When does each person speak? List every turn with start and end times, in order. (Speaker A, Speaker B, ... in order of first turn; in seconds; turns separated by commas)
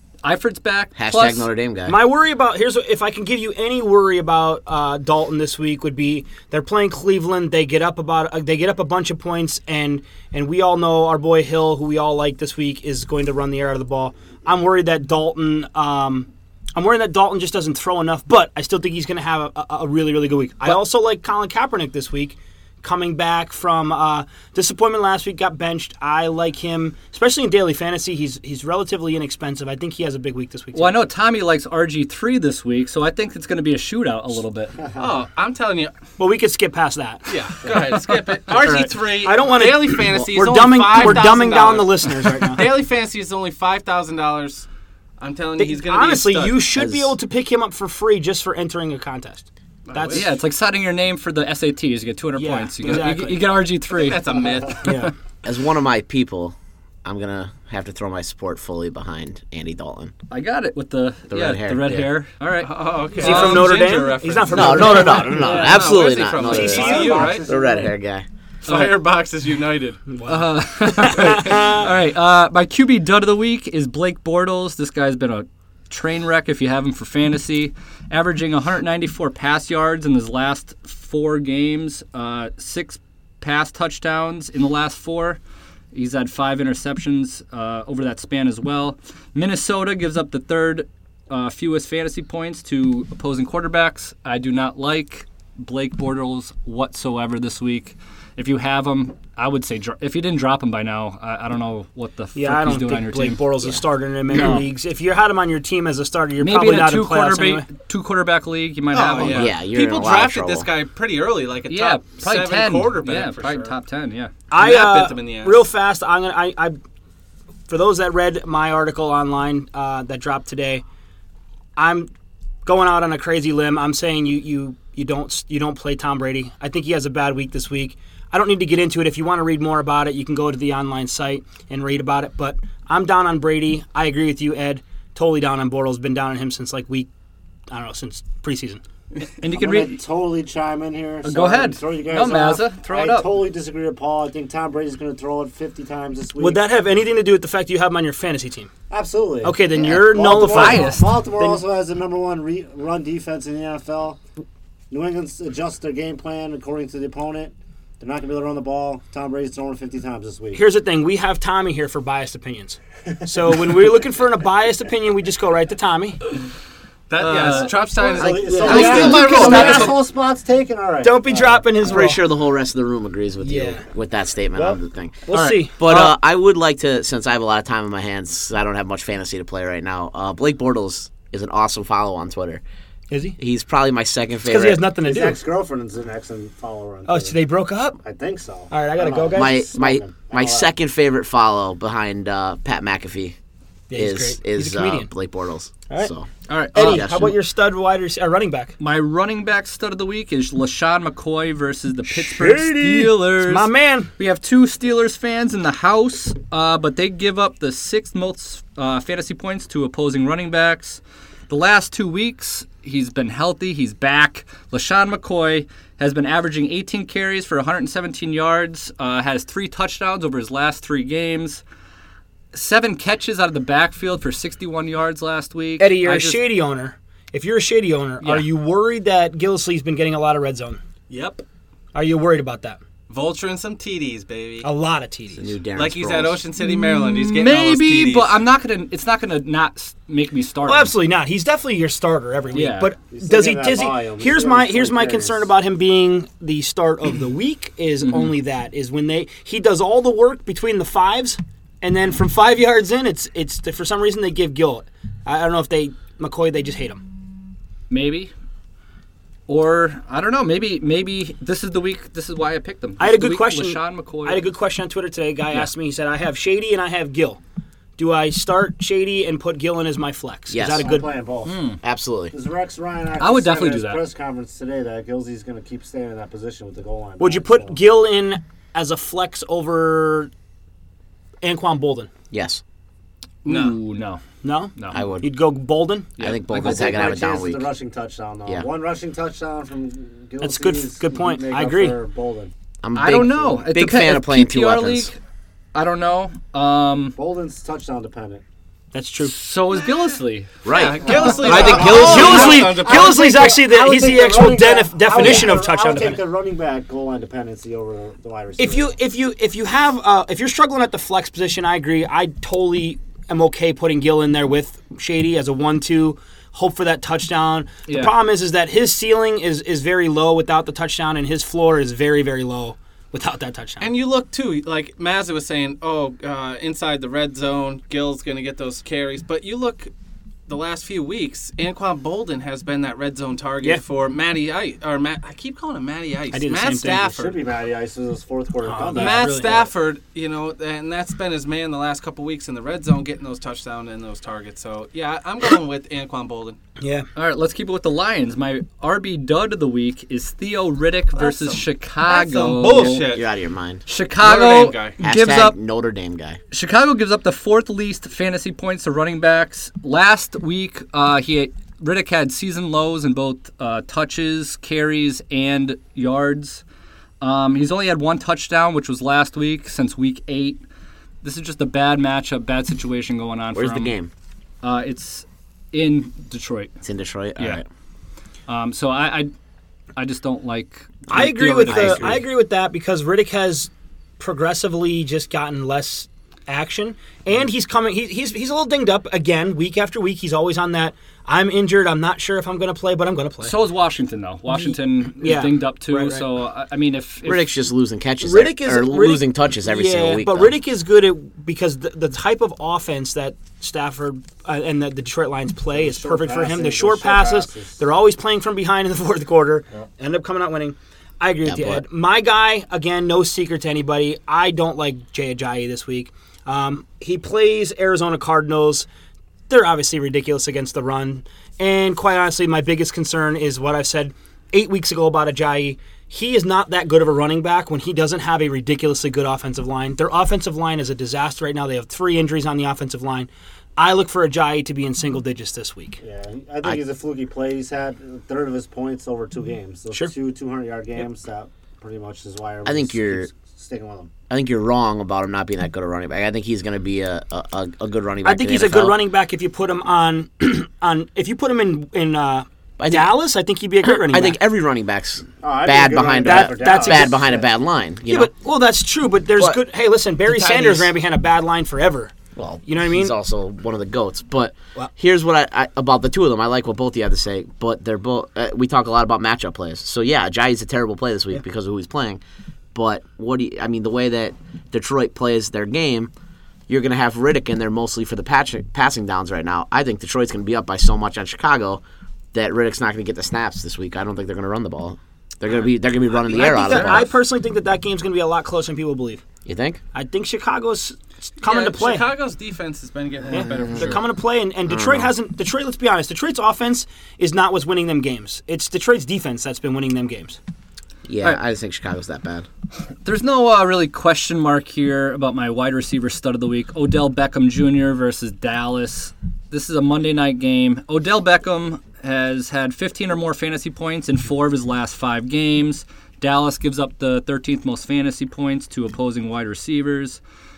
Speaker A: 0.2-1.5, Speaker B: 0.9-2.0, Speaker C: 1.9-31.0, Speaker A: 30.7-34.8, Speaker D: 35.0-35.9, Speaker C: 36.2-37.3, Speaker D: 37.3-44.7, Speaker A: 38.5-38.9, Speaker C: 39.2-42.8, Speaker D: 45.2-46.6, Speaker C: 45.6-50.3, Speaker B: 46.8-47.1, Speaker D: 49.9-50.3, Speaker A: 50.1-54.3, Speaker C: 52.4-53.4, Speaker D: 53.9-54.9, Speaker C: 54.8-55.1, Speaker A: 54.9-55.1, Speaker B: 55.4-60.1, Speaker A: 60.3-63.7, Speaker B: 61.3-62.1, Speaker D: 62.6-67.5, Speaker C: 63.2-65.7, Speaker B: 64.5-68.2, Speaker A: 65.3-65.9, Speaker E: 66.4-67.9, Speaker C: 66.4-67.4, Speaker D: 68.6-70.1, Speaker A: 68.7-69.0, Speaker C: 70.1-71.8, Speaker A: 70.2-85.4, Speaker A: 85.9-103.7, Speaker C: 102.3-107.7, Speaker A: 104.3-104.7, Speaker A: 106.4-109.5, Speaker D: 108.9-113.7, Speaker B: 109.2-110.7, Speaker A: 111.7-114.3, Speaker C: 114.5-116.8, Speaker D: 114.5-115.7, Speaker C: 117.7-120.8, Speaker C: 121.8-122.1, Speaker C: 122.6-137.1, Speaker C: 137.7-138.8, Speaker A: 139.4-140.0, Speaker E: 139.5-146.6, Speaker A: 141.2-143.4, Speaker C: 146.4-148.7, Speaker E: 148.9-154.2, Speaker C: 149.4-151.6, Speaker A: 150.2-151.3, Speaker E: 154.9-160.6, Speaker C: 160.5-166.2, Speaker E: 163.3-163.9, Speaker D: 167.1-170.0, Speaker A: 167.2-169.9, Speaker E: 168.1-172.1, Speaker C: 168.3-169.9, Speaker C: 171.0-172.2, Speaker B: 171.8-182.6, Speaker C: 173.4-173.8, Speaker C: 174.6-176.1, Speaker A: 175.3-175.6, Speaker C: 183.1-183.4, Speaker B: 183.4-184.9, Speaker C: 184.4-185.4, Speaker E: 185.0-187.4, Speaker C: 187.1-188.0, Speaker E: 188.0-190.7, Speaker C: 188.7-189.6, Speaker B: 189.3-193.3, Speaker C: 193.9-195.1, Speaker B: 193.9-197.3, Speaker A: 196.5-197.1, Speaker C: 196.7-198.7, Speaker A: 198.8-221.6, Speaker C: 202.1-204.1, Speaker A: 222.5-226.4, Speaker C: 225.8-230.8, Speaker A: 228.2-228.5, Speaker A: 231.1-231.4, Speaker C: 231.9-232.8, Speaker D: 233.1-234.7, Speaker C: 234.6-235.5, Speaker B: 235.3-236.4, Speaker D: 235.7-238.4, Speaker A: 236.6-240.9, Speaker C: 240.6-257.0, Speaker A: 242.5-242.9, Speaker E: 243.1-245.5, Speaker A: 248.0-248.3, Speaker A: 257.9-258.3, Speaker A: 259.5-264.5, Speaker C: 263.0-267.4, Speaker C: 268.0-271.1, Speaker B: 270.5-270.9, Speaker E: 270.8-271.6, Speaker A: 271.4-271.8, Speaker B: 271.8-272.3, Speaker E: 272.3-277.8, Speaker A: 273.2-274.0, Speaker C: 277.2-280.3, Speaker C: 281.4-282.1, Speaker B: 282.3-282.6, Speaker D: 283.4-283.8, Speaker A: 283.4-284.2, Speaker C: 284.4-286.1, Speaker A: 284.8-285.0, Speaker B: 284.9-285.2, Speaker A: 286.2-287.1, Speaker B: 286.2-287.7, Speaker E: 286.5-292.5, Speaker C: 290.4-292.0, Speaker B: 292.8-295.1, Speaker A: 292.9-295.2, Speaker A: 295.7-297.1, Speaker E: 297.1-298.4, Speaker C: 298.9-299.3, Speaker A: 299.2-300.5, Speaker B: 300.6-302.6, Speaker D: 300.6-303.4, Speaker E: 301.1-308.9, Speaker C: 301.4-306.2, Speaker B: 305.1-305.5, Speaker C: 308.6-323.9, Speaker A: 317.9-318.1, Speaker D: 323.8-329.9, Speaker D: 330.5-337.4, Speaker C: 336.3-337.1, Speaker E: 336.9-339.6, Speaker C: 338.6-339.7, Speaker D: 338.9-346.6, Speaker C: 346.8-347.1, Speaker A: 347.1-353.1, Speaker D: 351.1-353.2, Speaker C: 352.6-353.0, Speaker B: 353.1-353.8, Speaker A: 353.9-355.5, Speaker D: 354.2-355.0, Speaker B: 355.0-356.4, Speaker A: 356.5-366.6, Speaker A: 367.2-370.6, Speaker A: 371.2-373.9, Speaker B: 373.5-374.1, Speaker A: 374.6-376.8, Speaker B: 376.8-377.6, Speaker A: 378.5-379.3, Speaker A: 379.9-382.2, Speaker C: 381.1-393.6, Speaker B: 381.1-382.2, Speaker A: 393.4-397.6, Speaker C: 394.5-396.3, Speaker B: 397.2-400.6, Speaker C: 398.2-418.9, Speaker E: 405.7-407.8, Speaker B: 411.4-411.8, Speaker C: 419.5-436.0, Speaker E: 436.0-444.1, Speaker B: 442.6-443.3, Speaker B: 444.3-449.0, Speaker C: 448.2-454.4, Speaker B: 452.8-453.2, Speaker B: 453.8-458.3, Speaker E: 455.4-457.5, Speaker C: 456.2-457.2, Speaker C: 458.1-462.1, Speaker B: 459.4-459.6, Speaker B: 460.3-460.9, Speaker B: 462.4-472.2, Speaker C: 462.6-463.1, Speaker B: 472.7-476.1, Speaker B: 476.7-481.8, Speaker B: 482.3-487.1, Speaker C: 486.2-489.2, Speaker B: 489.4-489.8, Speaker C: 489.9-492.1, Speaker D: 491.4-494.0, Speaker C: 493.3-500.4, Speaker B: 493.3-494.0, Speaker B: 494.7-495.1, Speaker B: 501.1-502.5, Speaker A: 503.0-520.2